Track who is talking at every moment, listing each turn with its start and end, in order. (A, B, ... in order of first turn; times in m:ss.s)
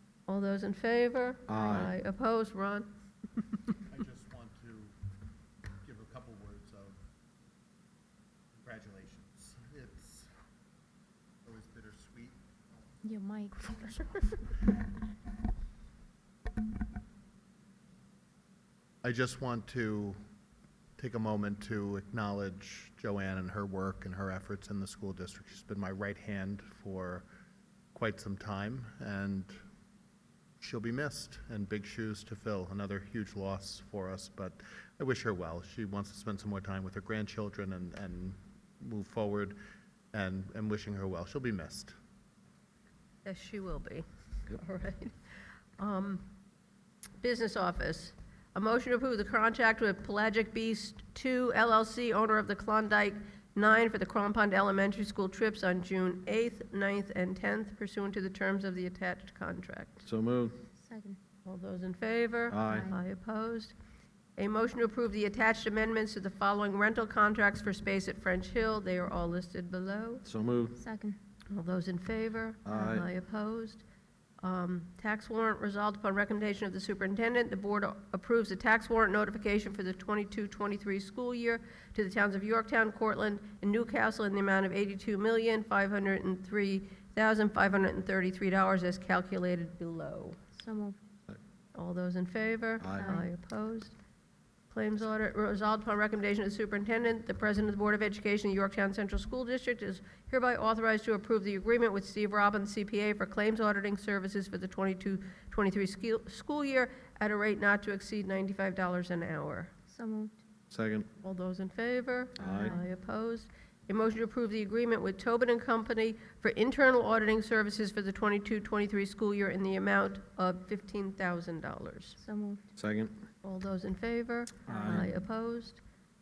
0:00.3-0:02.9 A
0:01.5-0:01.9 B
0:01.6-0:01.9 C
0:03.9-0:04.9 D
0:05.8-0:07.0 D
0:08.5-0:10.3 D
0:11.4-0:12.4 D
0:13.0-0:14.0 C
0:19.0-0:20.2 D
0:21.0-0:27.2 D
0:27.9-0:29.6 D
0:30.6-0:39.6 D
0:40.1-0:41.9 D
0:43.2-0:45.1 A
0:45.8-0:46.3 A
0:47.2-1:00.0 A
1:00.0-1:00.6 B
1:00.8-1:01.2 C
1:01.4-1:03.7 A
1:02.5-1:02.9 B
1:02.7-1:03.0 C
1:04.4-1:10.2 A
1:10.2-1:10.8 B
1:10.8-1:11.2 C
1:11.5-1:13.8 A
1:12.6-1:13.1 B
1:14.4-1:30.4 A
1:30.6-1:31.0 C
1:31.8-1:33.9 A
1:32.8-1:33.2 B
1:33.0-1:33.3 C
1:34.7-1:49.7 A
1:49.9-1:50.4 C
1:50.7-1:51.1 B
1:51.2-2:02.2 A
1:52.4-1:52.8 B
2:02.2-2:02.6 C
2:02.8-2:03.2 B
2:03.4-2:05.8 A
2:04.7-2:05.1 B
2:04.7-2:05.0 C